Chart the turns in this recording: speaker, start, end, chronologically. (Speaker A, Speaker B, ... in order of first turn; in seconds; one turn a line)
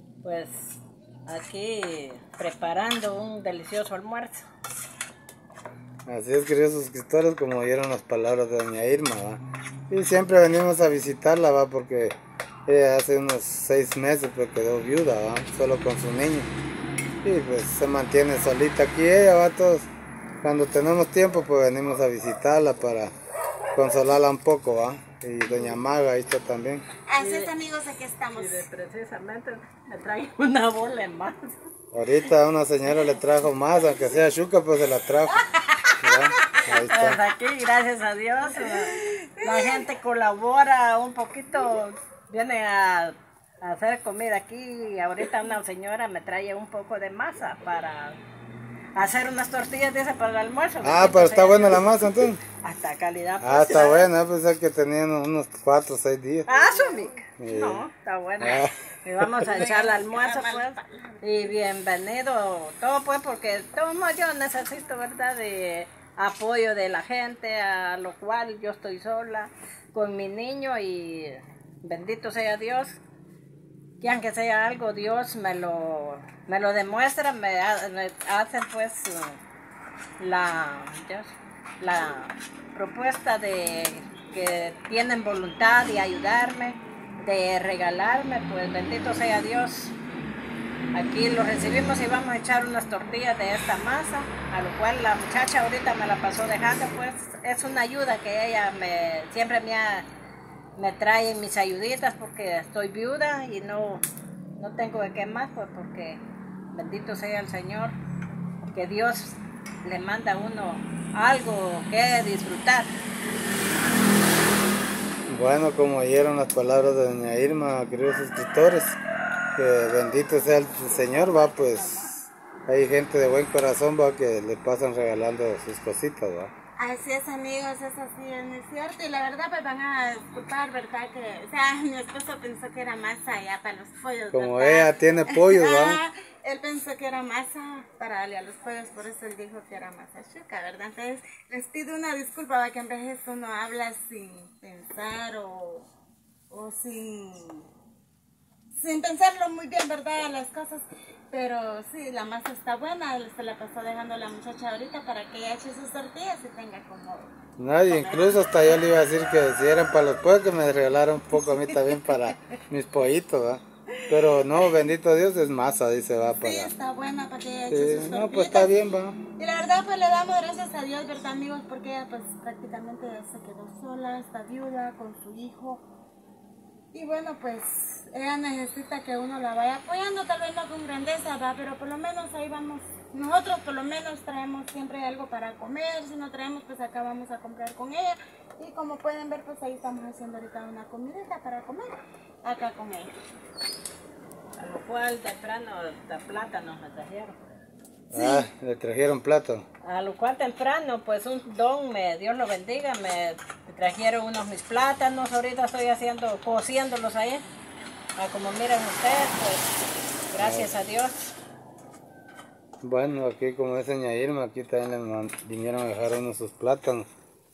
Speaker A: 0.2-4.5
Speaker B: 6.1-16.5
Speaker B: 17.2-19.9
Speaker B: 20.4-23.1
Speaker B: 23.7-26.9
Speaker C: 27.1-28.6
Speaker A: 27.2-27.5
Speaker A: 28.3-31.6
Speaker B: 31.9-35.5
Speaker B: 36.0-37.2
Speaker A: 36.7-48.2
Speaker A: 49.0-54.1
Speaker B: 50.8-52.4
Speaker B: 53.4-56.5
Speaker A: 56.5-73.0
Speaker B: 57.4-57.9
Speaker B: 58.4-59.5
Speaker C: 59.5-61.1
Speaker A: 74.0-79.4
Speaker A: 80.2-90.0
Speaker A: 90.9-100.1
Speaker A: 100.8-104.0
Speaker A: 104.6-108.0
Speaker A: 108.7-112.9
Speaker B: 115.3-119.0
Speaker B: 119.6-122.1
Speaker A: 121.1-122.2
Speaker B: 122.7-126.5
Speaker C: 126.8-145.9
Speaker B: 134.3-136.0
Speaker C: 146.5-147.7
Speaker C: 148.7-157.3
Speaker B: 157.6-166.7
Speaker C: 157.9-158.3
Speaker C: 166.4-168.7
Speaker B: 167.7-169.2
Speaker C: 169.4-175.9
Speaker C: 176.9-191.9
Speaker C: 192.4-193.1
Speaker A: 194.6-197.4
Speaker B: 198.1-199.7
Speaker C: 198.2-198.4
Speaker A: 199.8-207.4
Speaker A: 208.2-209.8
Speaker A: 210.3-211.1
Speaker B: 210.4-210.7
Speaker B: 212.8-217.1